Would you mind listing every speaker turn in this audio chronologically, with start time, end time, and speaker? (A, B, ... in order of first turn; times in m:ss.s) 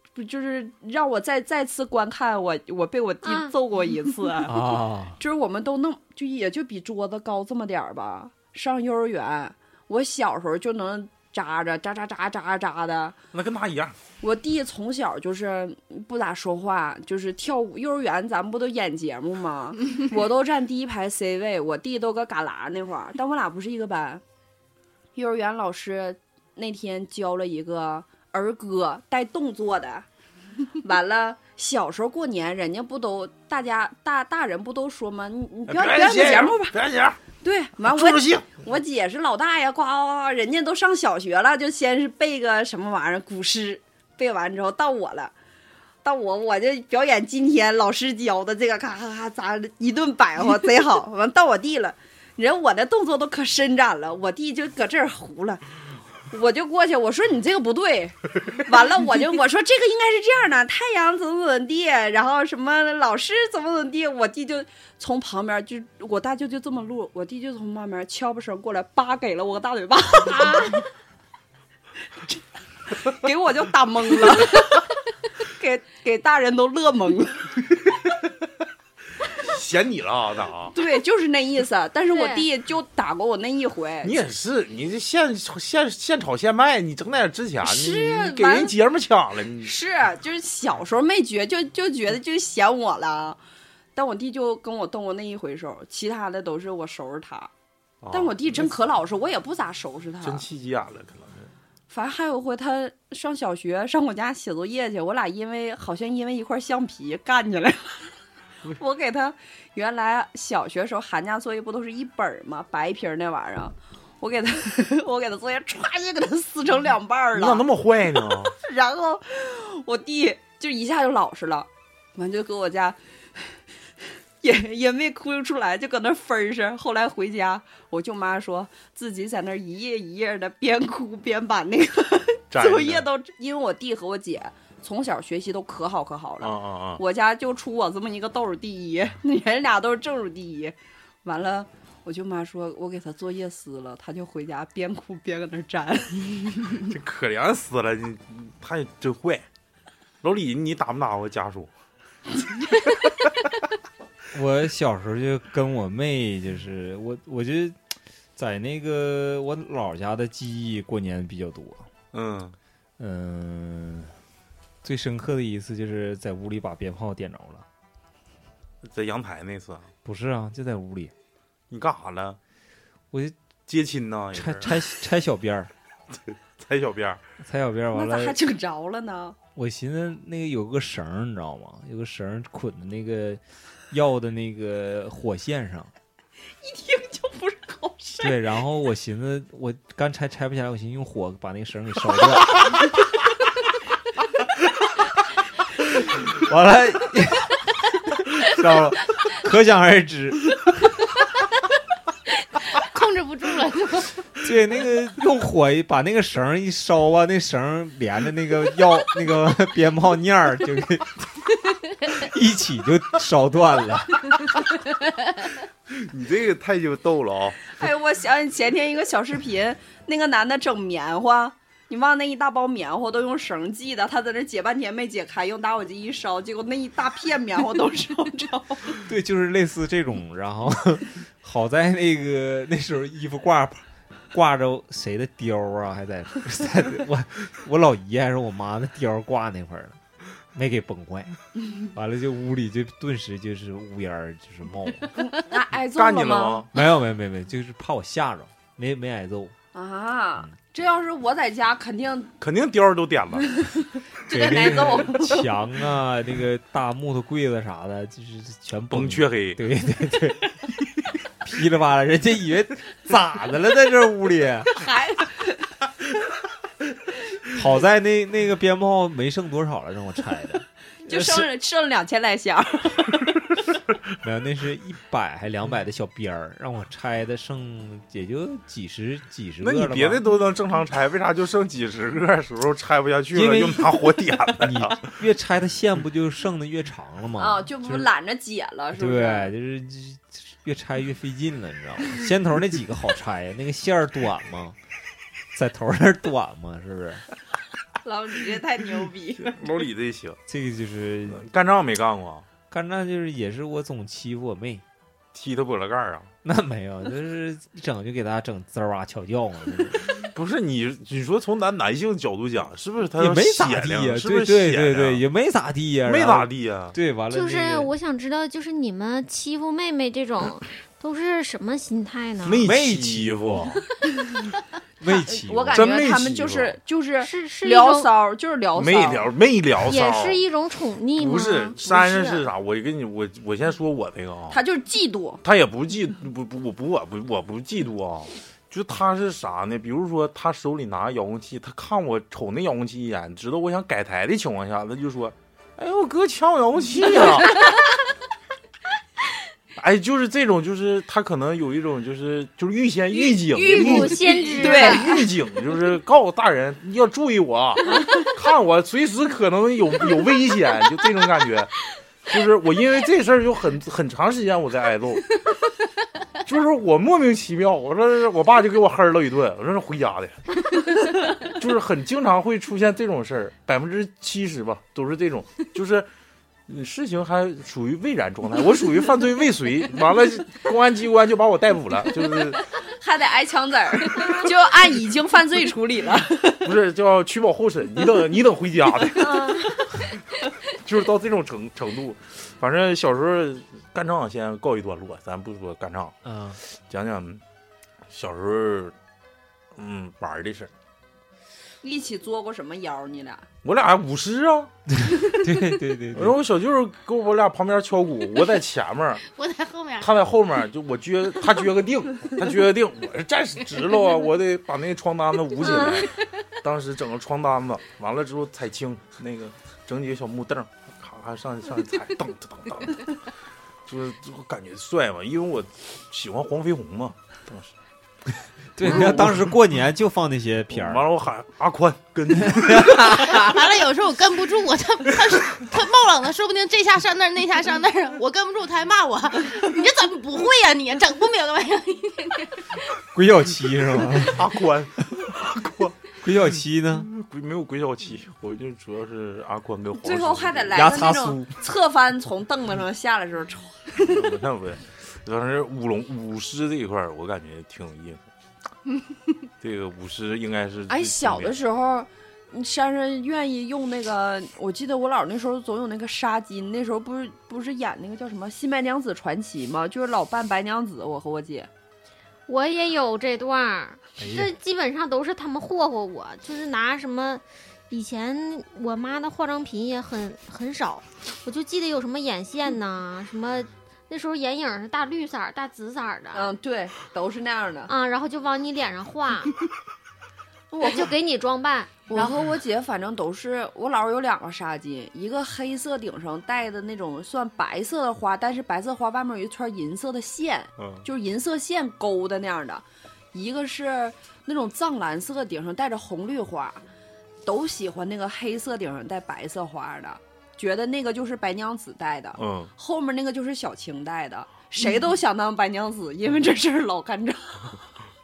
0:00.2-0:13.2 A
0:03.2-0:03.5 B
0:04.4-0:05.2 C
0:13.3-0:14.0 D
0:14.2-0:24.2 A
0:25.2-0:30.0 A
0:30.8-0:36.8 A
0:35.7-0:37.2 D
0:37.4-0:45.3 A
0:37.8-0:38.5 D
0:46.0-0:55.6 A
0:56.3-1:10.9 A
1:12.9-1:17.7 A
1:19.4-1:20.8 D
1:20.7-1:24.2 A
1:22.1-1:22.5 B
1:24.0-1:29.8 D
1:27.6-1:28.7 A
1:29.6-1:33.4 A
1:34.0-1:37.5 A
1:38.0-1:38.8 D
1:38.1-1:40.4 A
1:40.2-1:41.5 D
1:41.9-1:48.1 A
1:48.7-1:57.6 A
1:57.3-1:58.5 D
1:58.4-2:03.4 A
2:04.4-2:26.8 A
2:12.5-2:13.1 D
2:16.4-2:17.0 D
2:26.8-2:29.4 D
2:30.2-2:31.7 D
2:34.3-2:37.8 C
2:38.4-2:41.8 C
2:42.1-2:42.6 D
2:43.0-2:44.2 C
2:44.8-2:47.7 C
2:48.8-2:49.9 D
2:50.0-2:51.1 C
2:51.7-2:52.4 D
2:53.7-2:54.8 D
2:54.3-2:55.7 C
2:56.1-2:57.2 D
2:57.4-2:58.4 C
2:57.9-2:59.4 A
2:59.6-3:05.9 C
3:06.6-3:08.4 A
3:08.2-3:13.0 C
3:15.9-3:20.9 C
3:22.7-3:24.2 E
3:24.4-3:34.6 C
3:35.9-3:37.6 D
3:37.8-3:49.0 A
3:49.0-4:00.0 C
4:00.5-4:05.1 C
4:05.2-4:06.7 A
4:06.0-4:06.7 D
4:06.7-4:09.5 C
4:09.7-4:12.3 A
4:12.4-4:13.5 D
4:13.5-4:15.5 A
4:14.3-4:20.6 C
4:18.9-4:19.6 D
4:21.4-4:24.8 C
4:24.7-4:25.7 A
4:27.5-4:31.5 C
4:31.0-4:33.3 A
4:34.2-4:40.2 C
4:39.6-4:45.1 D
4:43.3-4:48.1 C
4:47.4-4:49.5 A
4:48.9-4:54.8 C
4:55.5-4:57.2 C
4:58.0-4:59.6 A
4:59.4-5:00.4 D
5:00.5-5:01.4 C
5:01.3-5:02.5 D
5:02.6-5:04.8 C
5:05.3-5:06.3 D
5:06.4-5:10.2 C
5:10.2-5:15.2 D
5:13.2-5:17.9 C
5:16.0-5:17.0 D
5:17.3-5:22.7 B
5:22.4-5:23.8 D
5:22.6-5:23.8 C
5:25.0-5:25.9 C
5:25.0-5:29.3 A
5:25.7-5:26.8 D
5:27.2-5:28.1 B
5:28.8-5:30.4 D
5:29.8-5:32.4 B
5:31.2-5:34.6 D
5:34.5-5:35.4 A
5:35.4-5:47.7 D
5:49.8-6:01.7 D
5:53.1-5:55.2 B
5:53.7-5:55.3 A
6:02.3-6:05.3 D
6:06.4-6:10.6 D
6:11.4-6:16.1 D
6:16.7-6:22.7 D
6:22.8-6:26.7 A
6:26.6-6:30.2 D
6:29.1-6:30.1 A
6:30.7-6:37.4 D
6:36.2-6:36.6 C
6:38.1-6:39.0 D
6:39.8-6:40.7 D
6:41.8-6:43.5 A
6:43.6-6:44.7 D
6:44.9-6:46.4 C
6:46.1-6:49.2 D
6:49.3-6:50.1 E
6:50.0-7:03.1 D
7:03.9-7:07.7 D
7:08.8-7:11.1 C
7:08.8-7:09.6 D
7:10.7-7:13.6 D
7:12.4-7:13.0 C
7:12.9-7:22.9 E
7:23.1-7:24.5 C
7:24.2-7:26.0 D
7:26.2-7:27.1 C
7:26.9-7:30.9 D
7:30.0-7:34.3 A
7:30.7-7:31.5 C
7:34.1-7:38.2 D
7:39.6-7:41.6 D
7:40.9-7:51.7 A
7:52.5-8:06.5 B
7:54.2-7:54.6 C
8:06.3-8:07.9 A
8:07.9-8:09.5 B
8:10.7-8:11.1 A
8:10.8-8:12.1 B
8:12.1-8:26.8 A
8:12.1-8:12.4 E
8:20.8-8:21.0 D
8:27.4-8:37.8 A
8:32.4-8:32.7 D